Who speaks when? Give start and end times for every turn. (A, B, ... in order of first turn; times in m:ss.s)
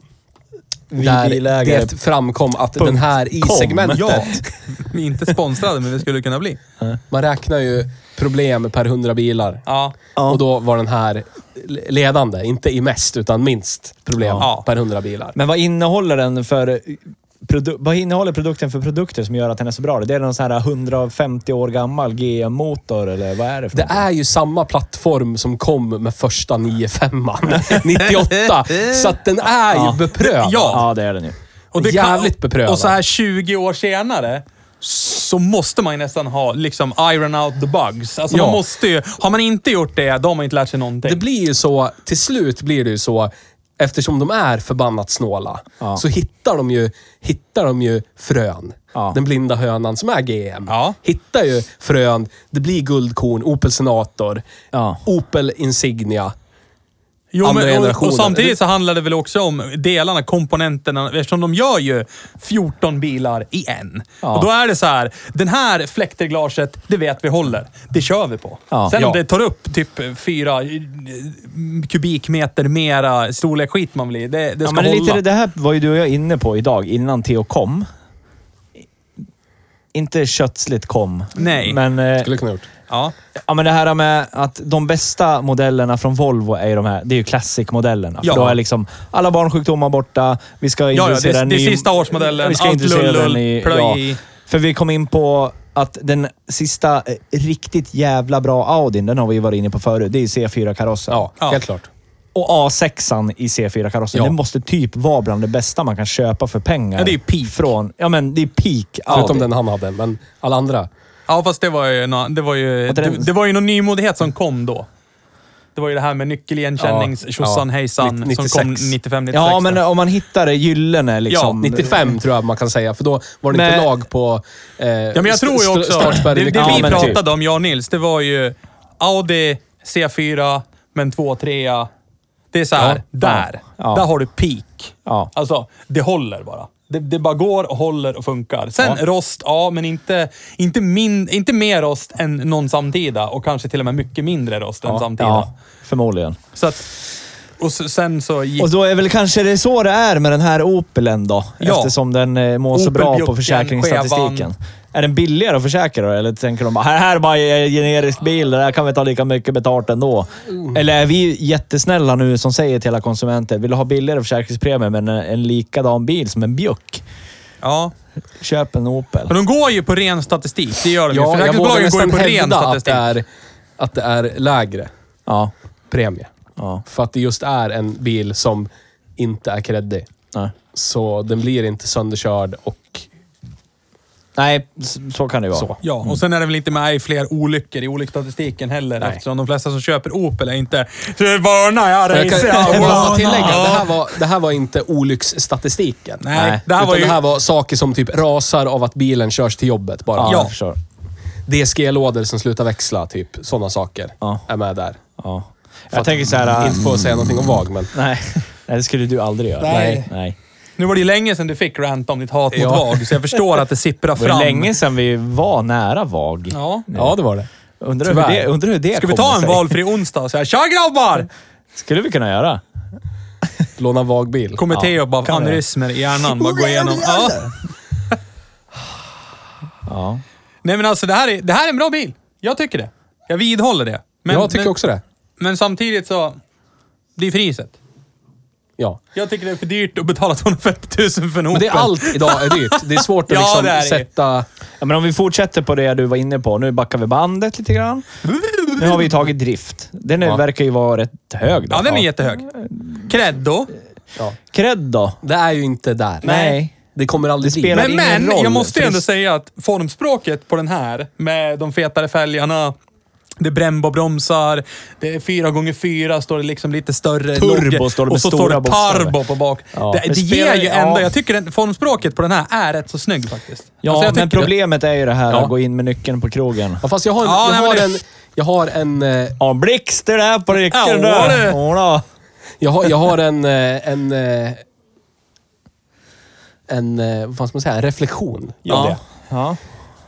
0:00.9-0:01.9 A
0:01.0-0:04.4 B
0:02.8-0:04.4 A
0:04.0-0:06.6 C
0:07.1-0:09.6 B
0:09.7-0:10.0 C
0:10.2-0:10.4 A
0:10.3-0:15.4 B
0:14.2-0:14.5 A
0:14.4-0:14.6 C
0:15.4-0:24.0 A
0:23.7-0:30.8 B
0:28.0-0:29.1 C
0:29.9-0:30.8 C
0:30.7-0:31.4 A
0:31.7-0:41.2 C
0:31.8-0:33.0 B
0:38.3-0:38.6 B
0:41.0-0:54.4 B
0:50.7-0:51.0 C
0:54.7-0:55.0 A
0:55.0-0:56.3 B
0:57.3-1:15.2 C
0:57.4-0:58.6 B
1:04.2-1:04.5 A
1:08.9-1:09.2 B
1:14.6-1:17.9 A
1:19.9-1:22.3 A
1:21.4-1:21.8 C
1:22.2-1:22.7 B
1:23.4-1:41.2 A
1:28.2-1:28.6 C
1:30.9-1:34.2 C
1:41.1-1:41.9 B
1:42.4-1:49.5 A
1:47.0-1:47.7 C
1:49.1-1:49.4 C
1:49.1-1:50.9 B
1:51.3-1:54.9 C
1:52.9-1:53.3 A
1:55.8-1:59.8 C
1:56.8-1:59.0 B
1:59.3-2:02.1 A
2:01.3-2:01.6 C
2:01.6-2:07.2 B
2:03.5-2:03.9 A
2:05.1-2:11.9 C
2:06.5-2:07.2 A
2:12.5-2:25.5 C
2:12.8-2:13.0 B
2:13.2-2:14.0 A
2:24.9-2:26.4 A
2:26.6-2:26.9 C
2:27.6-2:28.7 C
2:28.6-2:47.0 A
2:31.6-2:31.9 C
2:32.7-2:34.5 C
2:47.6-2:47.9 C
2:48.4-2:49.4 A
2:49.3-2:53.0 C
2:51.1-2:53.3 B
2:53.8-2:54.9 B
2:55.3-2:55.5 A
2:55.9-2:56.3 B
2:56.6-2:56.8 A
2:56.9-3:00.1 B
3:00.7-3:03.1 B
3:04.4-3:06.2 A
3:05.8-3:14.0 C
3:12.1-3:20.4 B
3:12.6-3:13.7 A
3:16.2-3:17.2 C
3:16.3-3:16.6 A
3:20.2-3:20.8 A
3:20.3-3:20.5 C
3:21.5-3:25.0 B
3:25.2-3:27.0 A
3:25.9-3:27.9 B
3:27.9-3:30.4 A
3:29.6-3:30.1 C
3:29.7-3:30.1 B
3:30.8-3:34.7 C
3:32.5-3:33.0 B
3:34.2-3:37.2 A
3:36.5-3:36.9 C
3:37.0-3:37.5 B
3:37.8-3:39.7 A
3:38.0-3:38.5 B
3:38.9-3:41.3 C
3:41.8-3:42.6 A
3:43.8-3:44.6 B
3:44.6-3:47.5 C
3:44.7-3:45.6 A
3:46.2-3:47.5 A
3:49.9-3:50.2 A
3:50.6-3:54.7 C
3:54.3-3:55.0 B
3:55.4-3:56.4 C
3:57.2-3:57.8 C
3:59.2-4:04.1 C
4:01.5-4:04.5 B
4:04.8-4:08.1 A
4:08.2-4:09.1 C
4:08.8-4:13.0 A
4:11.7-4:12.5 C
4:13.1-4:13.7 C
4:14.5-4:15.2 A
4:15.2-4:16.3 B
4:16.2-4:16.8 A
4:16.2-4:16.6 C
4:16.9-4:17.9 B
4:17.4-4:19.0 A
4:17.7-4:22.8 C
4:23.4-4:34.5 C
4:27.4-4:29.2 A
4:29.8-4:30.0 B
4:30.1-4:31.1 A
4:33.8-4:36.8 A
4:36.8-4:39.4 B
4:37.2-4:37.9 C
4:39.4-4:42.0 A
4:40.7-4:41.6 C
4:42.6-4:44.6 B
4:46.7-4:49.0 B
4:48.7-4:49.0 C
4:48.7-4:49.6 A